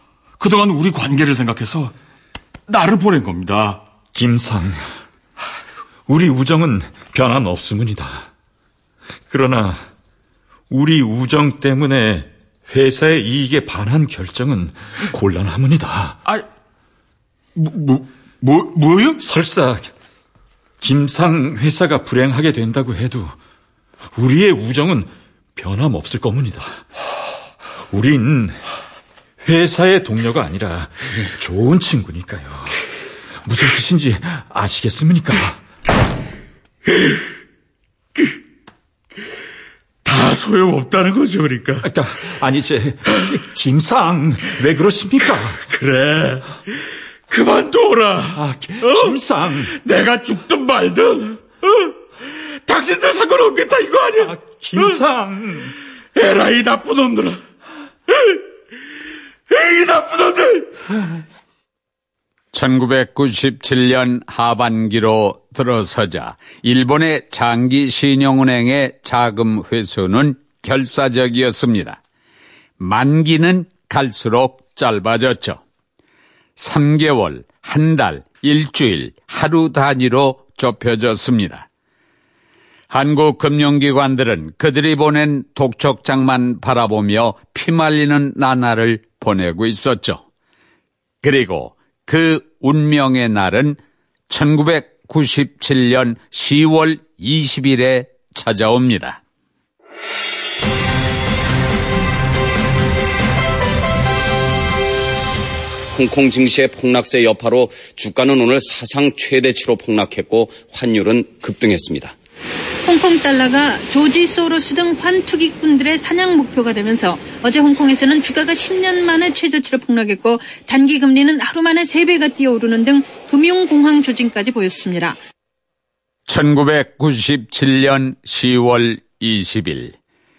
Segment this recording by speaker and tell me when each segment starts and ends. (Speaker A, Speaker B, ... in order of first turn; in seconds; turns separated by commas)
Speaker A: 0.4-1.9, Speaker A: 2.7-3.8, Speaker B: 4.1-4.9, Speaker B: 6.1-8.3, Speaker B: 9.3-9.9, Speaker B: 10.7-16.2, Speaker A: 17.5-19.2, Speaker B: 19.2-19.9, Speaker B: 20.8-23.4, Speaker B: 24.1-26.9, Speaker B: 27.9-28.6, Speaker B: 29.4-32.8, Speaker B: 33.4-35.6, Speaker A: 40.0-41.9, Speaker B: 41.8-45.6, Speaker A: 45.6-49.1, Speaker B: 48.3-49.7, Speaker A: 49.7-55.0, Speaker B: 54.2-55.7, Speaker A: 56.1-57.4, Speaker A: 58.1-58.4, Speaker A: 59.5-60.8, Speaker C: 62.5-72.0, Speaker C: 72.8-75.6, Speaker C: 76.6-81.7, Speaker C: 82.9-90.2, Speaker C: 91.2-93.8, Speaker C: 94.3-99.2, Speaker D: 105.9-112.1, Speaker E: 112.8-125.2, Speaker C: 126.3-129.9